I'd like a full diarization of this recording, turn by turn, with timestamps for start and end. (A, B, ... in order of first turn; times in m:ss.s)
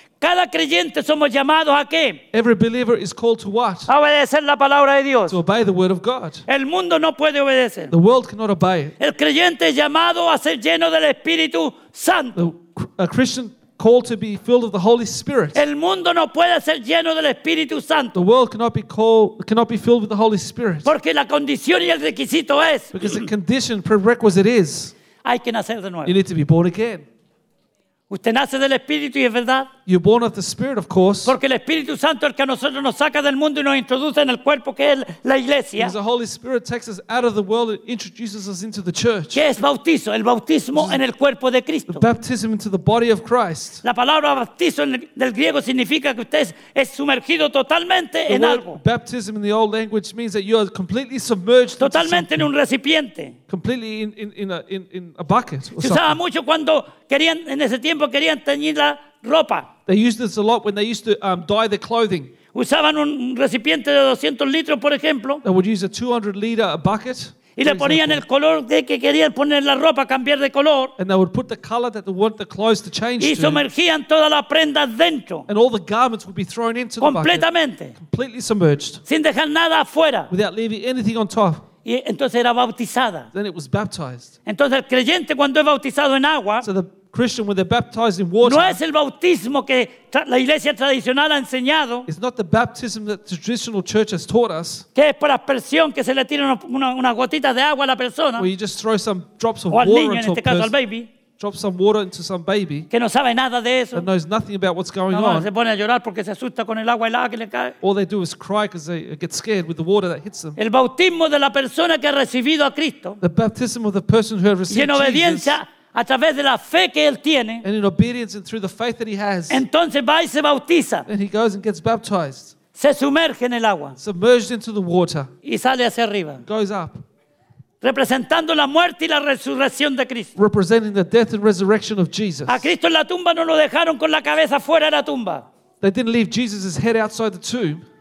0:00.2-0:02.2 A
0:02.3-0:03.9 B
0:03.9-0:05.4 A
0:05.3-0:06.5 B
0:06.5-0:07.9 A
0:07.9-0:09.0 B
0:09.0-0:12.4 A
0:12.4-0:15.6 B
0:15.6-0:18.2 A
0:18.1-0:20.9 B
0:20.8-0:23.3 A
0:22.9-0:24.9 B
0:25.2-0:26.2 A
0:26.0-0:27.1 B
0:28.1-0:29.7 A
0:29.9-0:31.4 B
0:31.2-0:36.0 A
0:35.8-0:39.4 B
0:39.3-0:42.1 A
0:40.7-0:41.0 B
0:41.9-0:43.8 B
0:43.8-0:48.8 A
0:48.3-0:52.5 B
0:51.8-0:53.4 A
0:53.5-0:56.2 B
0:55.8-0:59.7 A
0:59.9-1:02.3 B
1:02.5-1:05.4 A
1:05.4-1:08.2 B
1:07.6-1:10.9 A
1:11.0-1:13.7 B
1:13.2-1:15.5 A
1:15.5-1:19.0 B
1:17.0-1:18.0 A
1:19.1-1:20.3 A
1:20.3-1:21.6 B
1:21.8-1:23.3 A
1:23.3-1:24.3 B
1:24.5-1:26.7 A
1:26.6-1:28.8 B
1:28.4-1:32.1 A
1:32.1-1:34.9 B
1:35.0-1:38.5 A
1:38.4-1:40.7 B
1:39.7-1:41.1 A
1:41.4-1:42.9 B
1:42.9-1:44.1 A
1:43.9-1:45.5 B
1:45.1-1:47.8 A
1:47.8-1:50.6 B
1:50.6-1:53.2 A
1:53.2-1:55.6 B
1:54.7-1:57.6 A
1:57.6-1:59.6 B
1:59.5-2:01.1 A
2:01.1-2:02.6 B
2:02.8-2:04.0 A
2:04.0-2:05.3 B
2:05.4-2:06.4 A
2:06.4-2:07.0 B
2:07.8-2:10.3 A
2:10.4-2:12.7 B
2:12.5-2:15.5 A
2:15.8-2:17.8 B